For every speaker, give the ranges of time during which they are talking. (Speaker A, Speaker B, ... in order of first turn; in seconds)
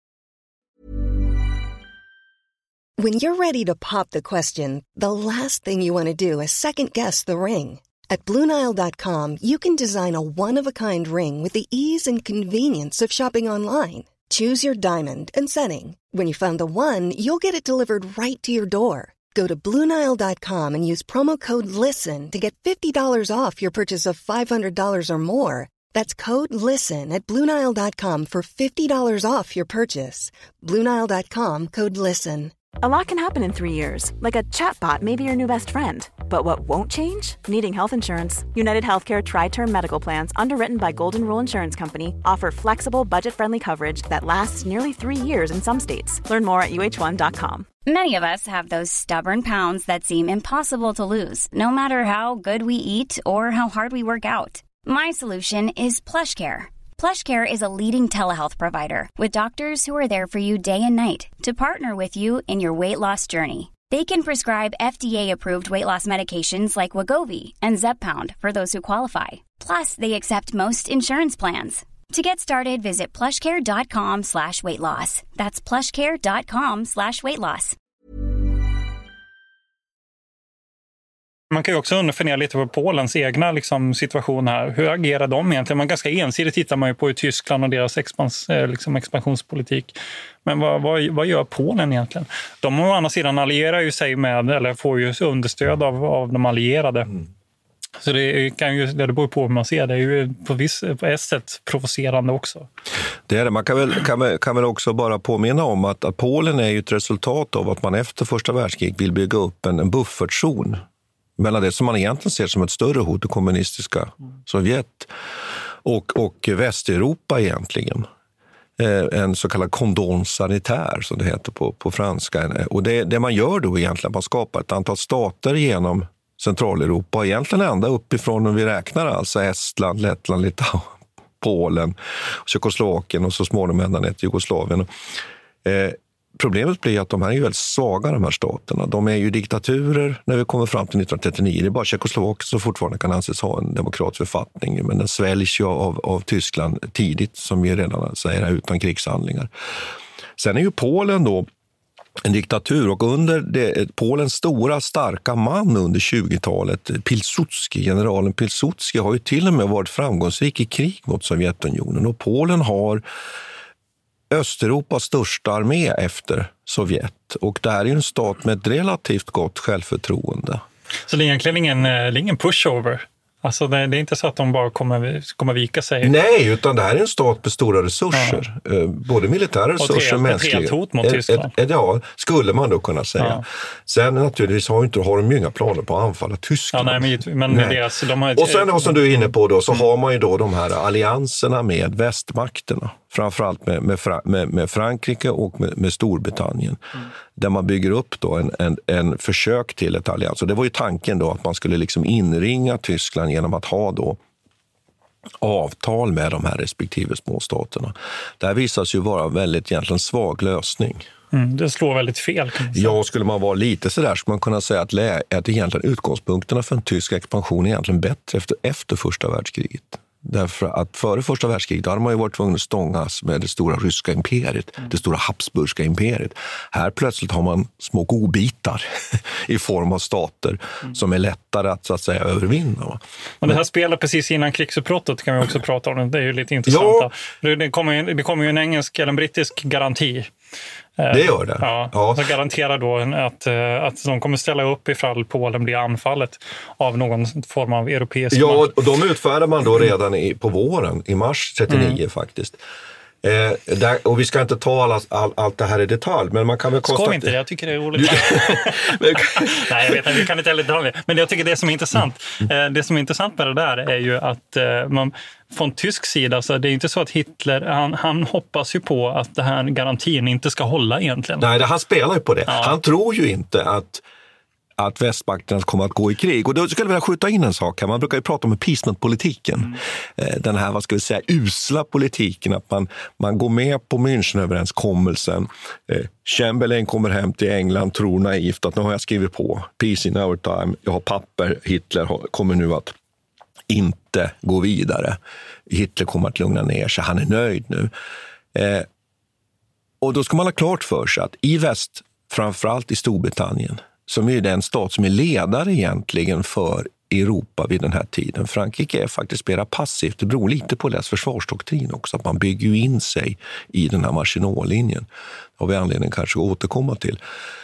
Speaker A: 3.0-32.5
Speaker B: 32.8-47.7
Speaker C: 47.9-77.7
Speaker D: 81.5-97.1, 98.0-102.7, 171.1-176.1, 178.1-178.4, 179.8-181.5, 183.2-183.4, 186.7-189.0, 211.3-212.9, 233.4-240.3, 241.0-248.7, 251.7-252.0, 256.8-271.5, 272.5-272.8
Speaker E: 103.3-110.8, 111.4-115.1, 115.8-118.1, 118.8-134.9, 135.6-149.5, 150.4-151.5, 152.2-163.0, 164.3-170.6, 176.0-187.8, 188.3-196.8, 197.3-204.2, 205.4-211.1, 212.7-233.6, 236.7-237.1, 241.1-242.3, 248.3-252.6, 253.2-257.3, 257.9-260.2, 271.4-274.0, 274.8-292.9, 293.7-297.9, 298.5-298.9, 300.0-315.1, 315.6-317.2